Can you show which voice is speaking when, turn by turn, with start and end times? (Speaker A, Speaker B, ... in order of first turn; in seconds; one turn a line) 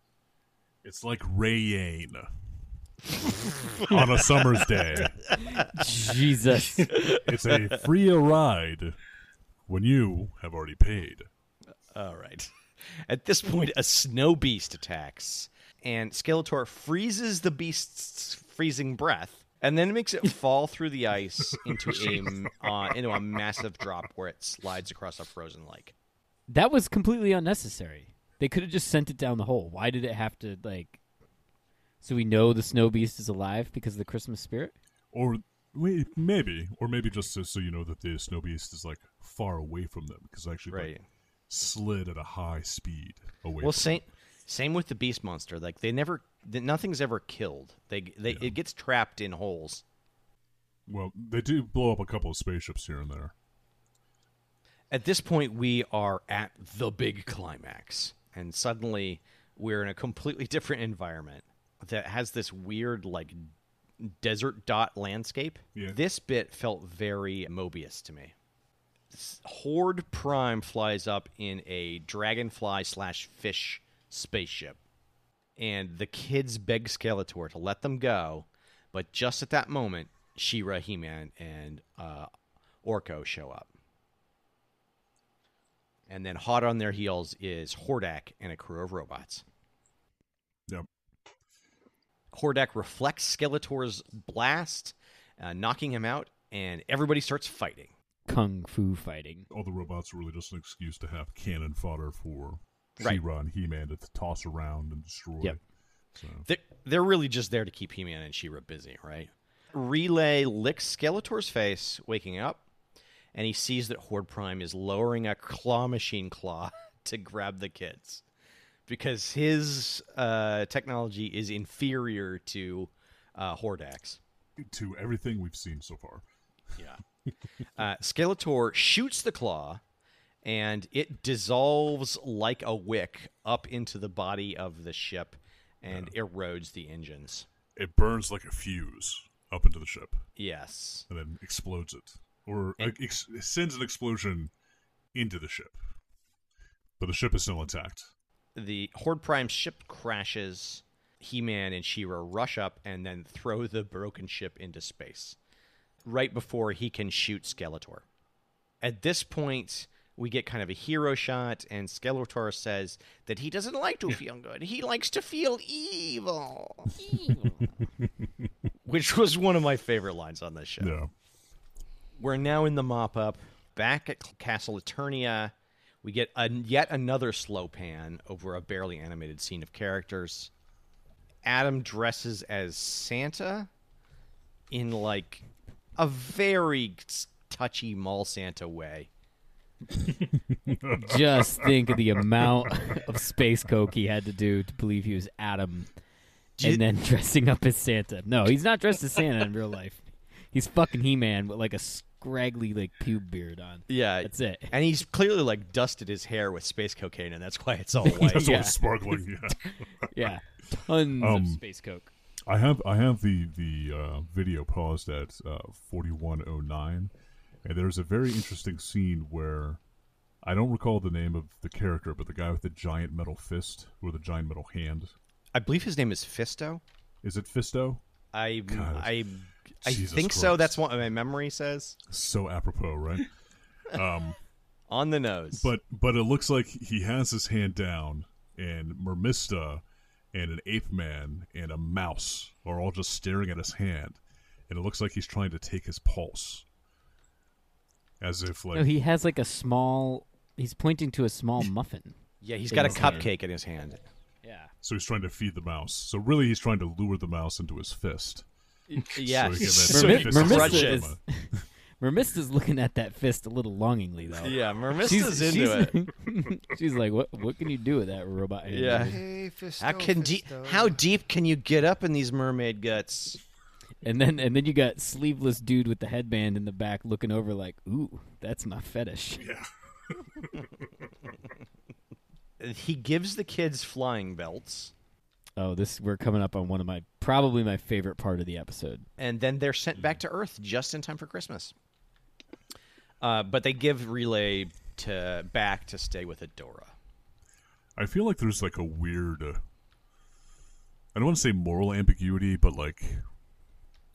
Speaker A: 0.8-2.3
Speaker B: 3.4-3.9
Speaker A: 3.8-5.2
Speaker C: 5.5-7.0
Speaker B: 6.9-7.7
Speaker A: 6.9-9.0
Speaker A: 9.7-11.3
Speaker B: 11.9-25.9
Speaker A: 21.9-22.3
Speaker C: 26.5-31.0
Speaker C: 32.0-34.7
Speaker A: 35.1-40.9
Speaker B: 40.7-41.0
Speaker A: 41.5-44.0
Speaker B: 43.6-49.8
Speaker A: 48.3-48.5
Speaker A: 50.9-53.3
Speaker B: 54.9-68.3
Speaker B: 69.1-74.8
Speaker B: 75.6-82.3
Speaker B: 82.8-83.7
Speaker B: 86.1-89.4
Speaker B: 92.3-97.9
Speaker C: 98.3-99.5
Speaker A: 99.5-105.6
Speaker A: 106.2-106.5
Speaker B: 106.5-112.6
Speaker B: 113.3-118.2
Speaker B: 118.9-124.2
Speaker A: 124.6-126.2
Speaker B: 126.8-127.0
Speaker B: 127.7-129.8
Speaker B: 130.4-137.5
Speaker A: 137.8-140.2
Speaker B: 140.4-141.1
Speaker A: 141.1-144.5
Speaker A: 145.1-145.8
Speaker A: 147.0-148.1
Speaker B: 148.5-155.4
Speaker B: 156.0-158.0
Speaker B: 158.8-167.4
Speaker B: 168.8-170.9
Speaker A: 170.8-171.1
Speaker B: 172.2-180.5
Speaker B: 181.4-183.7
Speaker B: 184.7-185.4
Speaker B: 186.0-189.1
Speaker A: 190.4-191.7
Speaker C: 190.8-195.9
Speaker C: 196.6-204.8
Speaker B: 203.9-208.7
Speaker A: 208.0-210.1
Speaker C: 208.2-209.2
Speaker C: 210.0-212.1
Speaker A: 211.2-211.6
Speaker A: 212.5-217.1
Speaker A: 217.6-219.8
Speaker A: 220.4-225.1
Speaker B: 225.5-226.8
Speaker A: 227.2-228.0
Speaker B: 228.3-232.0
Speaker A: 228.7-229.2
Speaker A: 229.8-230.8
Speaker A: 232.1-233.3
Speaker A: 233.9-234.4
Speaker B: 234.9-235.7
Speaker A: 235.5-246.6
Speaker A: 248.2-248.9
Speaker C: 248.7-252.1
Speaker B: 252.4-254.0
Speaker C: 252.7-253.3
Speaker A: 252.8-253.2
Speaker C: 254.4-254.7
Speaker A: 254.8-258.4
Speaker B: 258.9-261.1
Speaker A: 259.1-261.6
Speaker C: 259.8-269.2
Speaker B: 264.4-265.9
Speaker B: 268.6-269.2
Speaker D: 268.9-271.0
Speaker B: 269.8-273.4
Speaker C: 274.0-279.4
Speaker B: 282.6-284.9
Speaker C: 285.6-289.0
Speaker B: 289.2-291.7
Speaker B: 293.2-296.9
Speaker A: 298.0-299.6
Speaker A: 301.1-303.2